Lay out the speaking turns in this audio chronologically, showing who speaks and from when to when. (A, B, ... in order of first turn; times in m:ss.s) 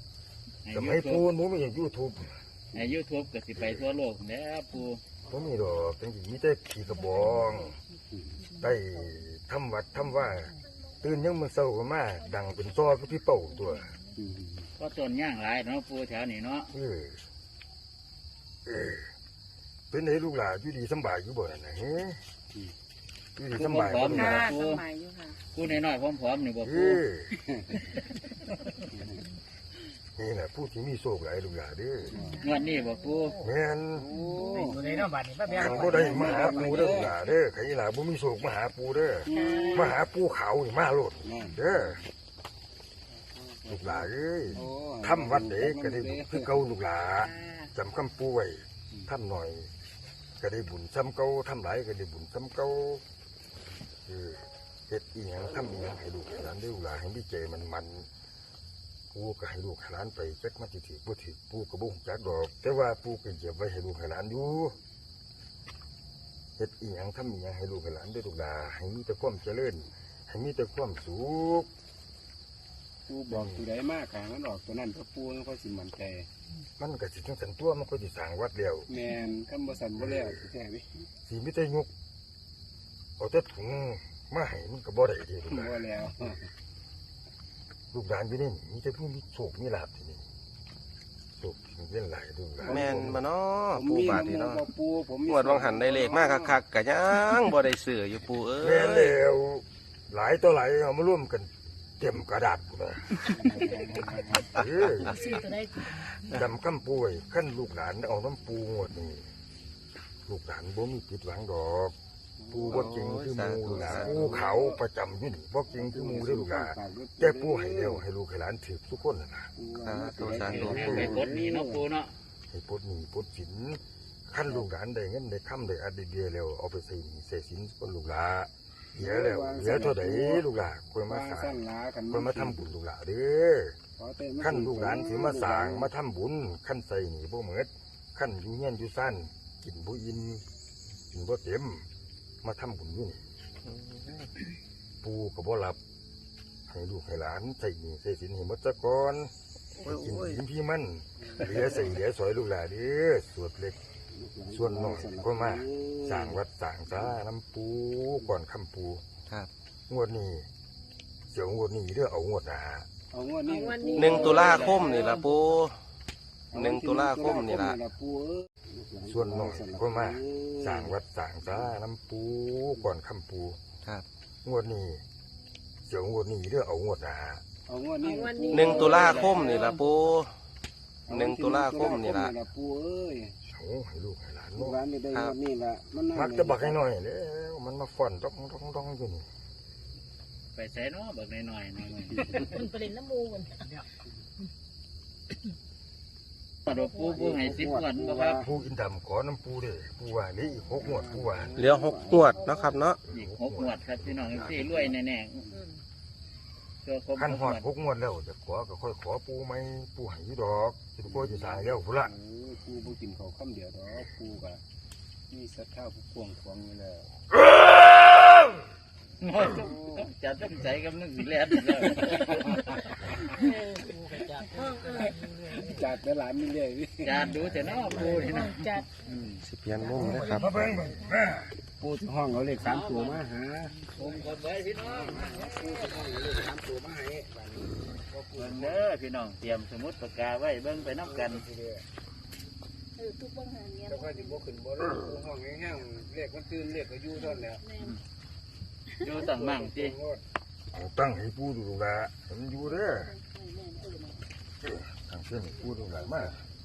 0:00.6-0:01.2 A
0:00.7-0:02.4 B
0:02.7-0:05.0 A
0:05.3-0:07.8 B
0:07.0-0:09.2 C
0:08.1-0:08.4 D
0:08.6-0:14.0 B
0:10.1-0:10.5 C
0:12.5-0:12.8 C
0:13.4-0:14.1 C
0:14.2-0:14.7 D
0:14.8-0:16.7 A
0:16.7-0:17.2 B
0:18.7-0:19.1 B
0:19.9-0:22.2 B
0:23.4-0:24.5 B
0:23.6-0:24.8 A
0:24.0-0:25.4 E
0:25.5-0:27.0 A
0:26.6-0:27.4 B
0:28.9-0:29.2 D
0:30.2-0:32.2 B
0:32.1-0:32.4 D
0:32.1-0:32.6 C
0:32.3-0:33.0 E
0:32.4-0:33.4 A
0:33.4-0:34.1 B
0:34.0-0:34.8 D
0:34.1-0:35.0 C
0:34.5-0:36.7 F
0:35.5-0:37.2 D
0:35.5-0:42.0 B
0:39.2-0:40.0 D
0:39.3-0:39.9 E
0:41.2-0:42.0 D
0:43.1-0:46.6 D
0:43.7-0:49.7 B
0:47.2-0:47.7 E
0:50.4-0:53.0 B
0:54.1-0:58.1 B
0:59.1-1:04.8 B
1:06.6-1:11.7 B
1:13.1-1:16.3 D
1:13.3-1:13.6 B
1:16.8-1:18.9 B
1:18.9-1:20.9 D
1:20.0-1:20.3 B
1:21.3-1:21.9 B
1:23.2-1:26.3 B
1:25.5-1:26.5 D
1:27.9-1:30.2 B
1:31.4-1:33.2 B
1:32.6-1:33.2 D
1:32.7-1:34.7 G
1:33.7-1:36.6 D
1:35.3-1:39.2 G
1:38.6-1:43.2 B
1:43.3-1:44.5 D
1:44.0-1:45.3 G
1:44.4-1:45.2 B
1:44.9-1:46.1 C
1:46.2-1:49.3 B
1:50.3-1:52.0 B
1:52.4-1:53.0 D
1:52.5-1:59.5 B
1:52.7-1:54.4 G
1:53.8-1:54.8 D
1:55.7-1:58.0 D
1:59.6-2:01.8 D
1:59.8-2:01.2 G
2:00.4-2:02.2 A
2:02.5-2:13.8 B
2:09.0-2:10.4 D
2:11.1-2:12.6 D
2:14.0-2:15.9 D
2:14.4-2:20.4 B
2:21.1-2:21.9 B
2:22.4-2:23.3 B
2:23.7-2:24.3 G
2:25.0-2:25.8 B
2:26.7-2:29.3 B
2:29.7-2:30.4 G
2:29.8-2:33.8 B
2:31.2-2:31.8 D
2:34.1-2:36.4 D
2:34.5-2:39.0 B
2:39.9-2:40.5 B
2:41.3-2:42.9 B
2:43.1-2:45.1 D
2:43.5-2:45.2 E
2:44.0-2:45.8 G
2:46.5-2:50.9 D
2:46.5-2:47.8 G
2:49.1-2:53.6 B
2:54.4-2:55.0 B
2:55.9-2:57.4 B
2:57.7-2:59.3 D
2:58.0-2:59.8 E
2:58.5-3:00.3 G
2:58.9-2:59.5 A
3:01.1-3:03.3 D
3:01.1-3:02.3 G
3:03.5-3:04.8 B
3:04.6-3:06.8 D
3:06.1-3:09.3 B
3:10.5-3:12.6 A
3:12.3-3:13.8 C
3:16.7-3:18.5 A
3:16.7-3:17.3 C
3:17.1-3:18.5 D
3:18.4-3:21.6 B
3:20.7-3:22.4 D
3:21.6-3:23.0 G
3:23.0-3:24.8 B
3:23.1-3:25.5 A
3:26.8-3:27.7 A
3:27.2-3:32.1 B
3:31.1-3:34.6 D
3:35.3-3:37.1 D
3:39.2-3:43.5 A
3:39.5-3:40.1 D
3:41.9-3:42.8 D
3:43.4-3:45.7 F
3:44.5-3:45.2 C
3:44.9-3:48.3 D
3:47.0-3:48.9 A
3:47.9-3:48.9 C
3:49.4-3:50.6 G
3:49.8-3:51.0 C
3:50.0-3:51.5 B
3:51.8-3:54.2 D
3:52.6-3:53.2 A
3:53.9-3:55.8 A
3:54.8-3:58.8 D
3:58.4-4:01.4 A
4:00.8-4:01.8 D
4:03.0-4:04.5 C
4:03.9-4:07.6 D
4:07.1-4:08.0 C
4:08.9-4:09.2 C
4:09.0-4:10.0 A
4:09.2-4:10.2 D
4:10.7-4:13.1 B
4:12.6-4:14.3 C
4:14.6-4:16.4 B
4:15.5-4:16.4 C